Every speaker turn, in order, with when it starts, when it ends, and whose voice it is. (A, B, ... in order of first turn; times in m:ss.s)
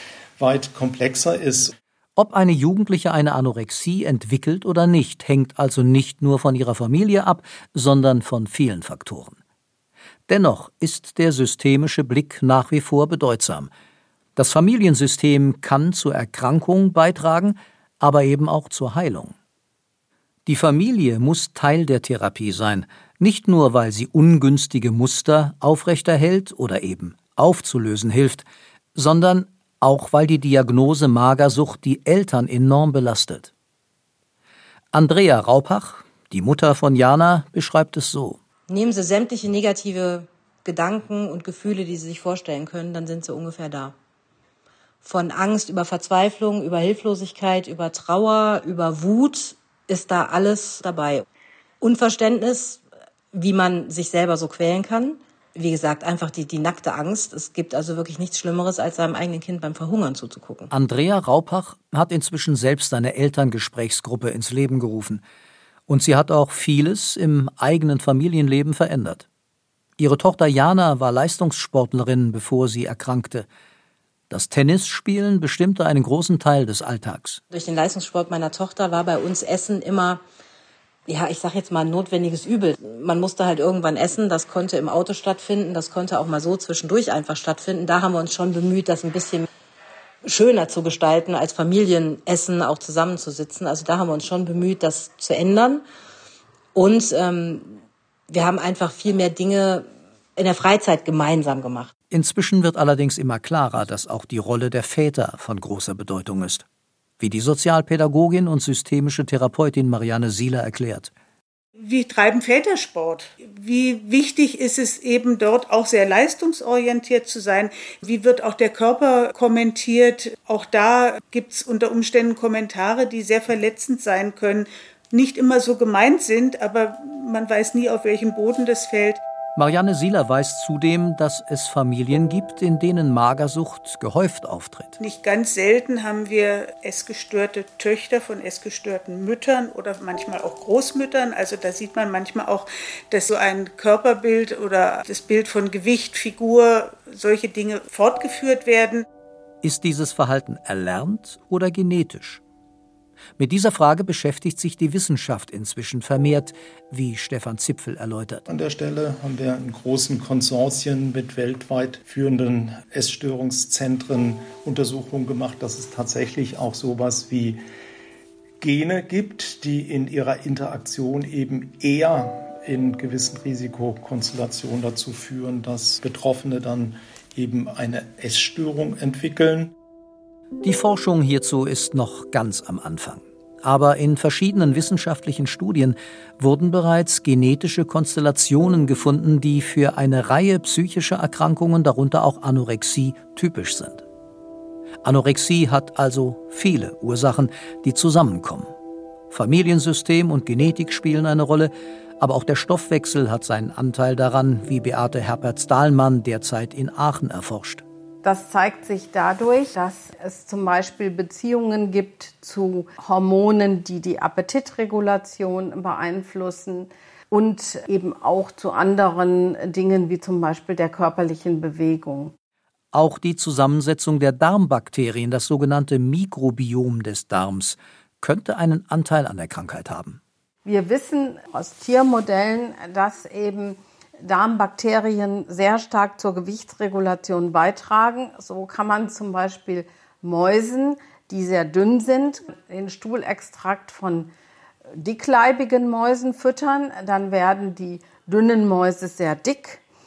0:00.4-0:01.7 A
0:02.2-0:09.4 B
0:10.3-0:13.7 B
0:14.4-0:19.3 B
0:20.4-0:33.5 B
0:34.9-0:38.4 B
0:38.7-0:43.9 C
0:45.0-0:51.2 C
0:51.8-1:00.7 C
1:00.7-1:05.2 B
1:05.9-1:09.2 B
1:10.0-1:13.5 B
1:14.3-1:17.4 B
1:17.5-1:20.2 C
1:21.1-1:29.4 C
1:30.2-1:35.8 C
1:36.7-1:37.8 C
1:38.3-1:41.9 C
1:42.1-1:46.6 B
1:47.2-1:51.1 B
1:51.8-2:09.2 D
2:09.6-2:15.0 B
2:15.0-2:29.0 D
2:29.6-2:32.4 B
2:33.4-2:38.4 B
2:38.5-2:47.6 A
2:48.6-2:59.7 A
3:00.6-3:14.0 B
3:15.0-3:18.7 B
3:19.3-3:27.8 B
3:28.2-3:42.3 E
3:42.9-3:50.2 B
3:50.6-4:04.3 E
4:05.0-4:09.8 E